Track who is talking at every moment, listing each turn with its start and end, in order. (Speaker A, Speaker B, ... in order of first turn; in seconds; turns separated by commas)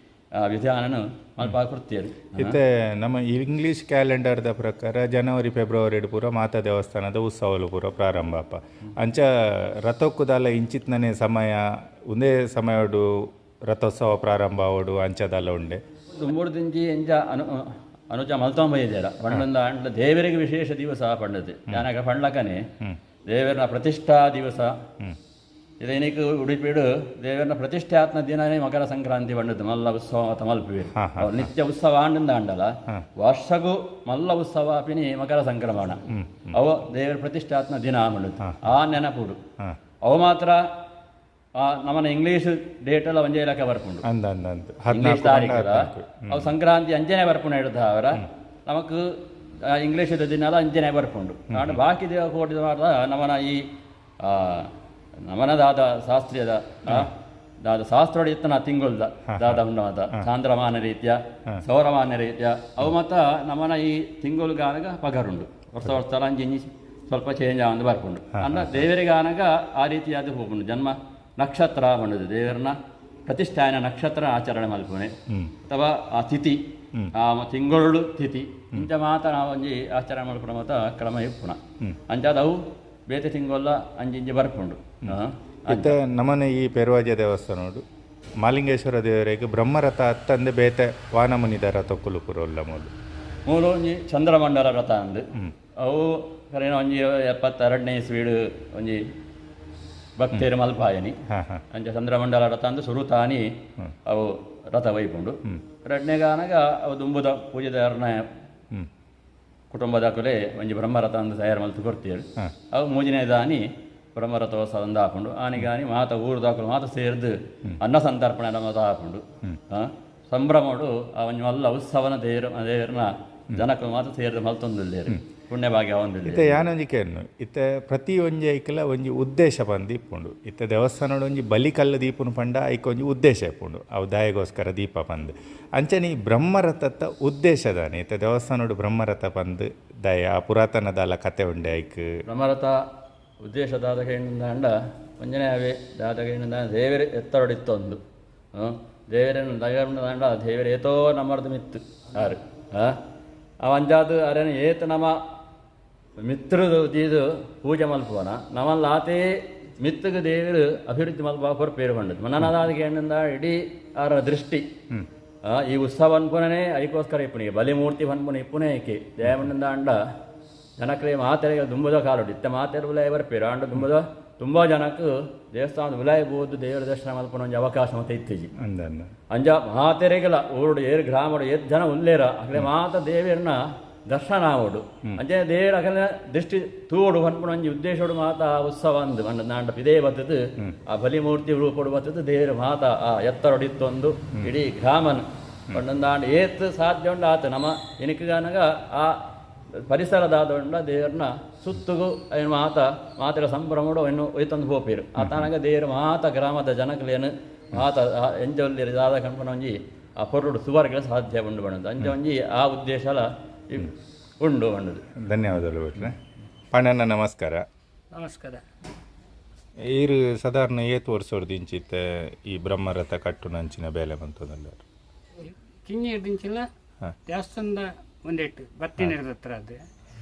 Speaker A: 0.4-2.6, Speaker B: 2.4-9.2, Speaker B: 9.8-11.6, Speaker B: 12.1-13.0, Speaker B: 13.7-15.8, Speaker A: 16.1-22.6, Speaker A: 23.3-24.8, Speaker A: 25.8-39.4, Speaker B: 30.9-31.5, Speaker B: 36.1-36.5, Speaker A: 40.0-40.6, Speaker A: 41.6-44.0, Speaker B: 44.0-46.5, Speaker A: 44.9-53.6, Speaker B: 51.5-51.8, Speaker A: 54.2-54.7, Speaker A: 55.2-75.1, Speaker B: 59.3-59.6, Speaker B: 68.4-68.8, Speaker A: 75.7-76.6, Speaker A: 77.1-85.9, Speaker B: 85.7-87.8, Speaker B: 88.4-92.9, Speaker A: 93.5-95.2, Speaker A: 95.8-99.0, Speaker A: 100.2-101.2, Speaker B: 101.3-101.6, Speaker A: 101.7-103.5, Speaker A: 104.0-108.3, Speaker A: 109.7-126.6, Speaker B: 126.2-142.1, Speaker A: 142.2-142.8, Speaker A: 143.4-148.0, Speaker A: 148.5-153.0, Speaker A: 153.6-155.2, Speaker A: 156.2-159.2, Speaker A: 159.8-164.7, Speaker A: 165.5-170.0, Speaker A: 170.8-178.5, Speaker B: 178.6-179.1, Speaker A: 179.3-215.0, Speaker B: 205.2-205.5, Speaker B: 215.2-216.2, Speaker B: 216.7-217.6, Speaker C: 218.1-218.6, Speaker B: 219.9-224.8, Speaker C: 225.4-226.7, Speaker C: 227.3-229.8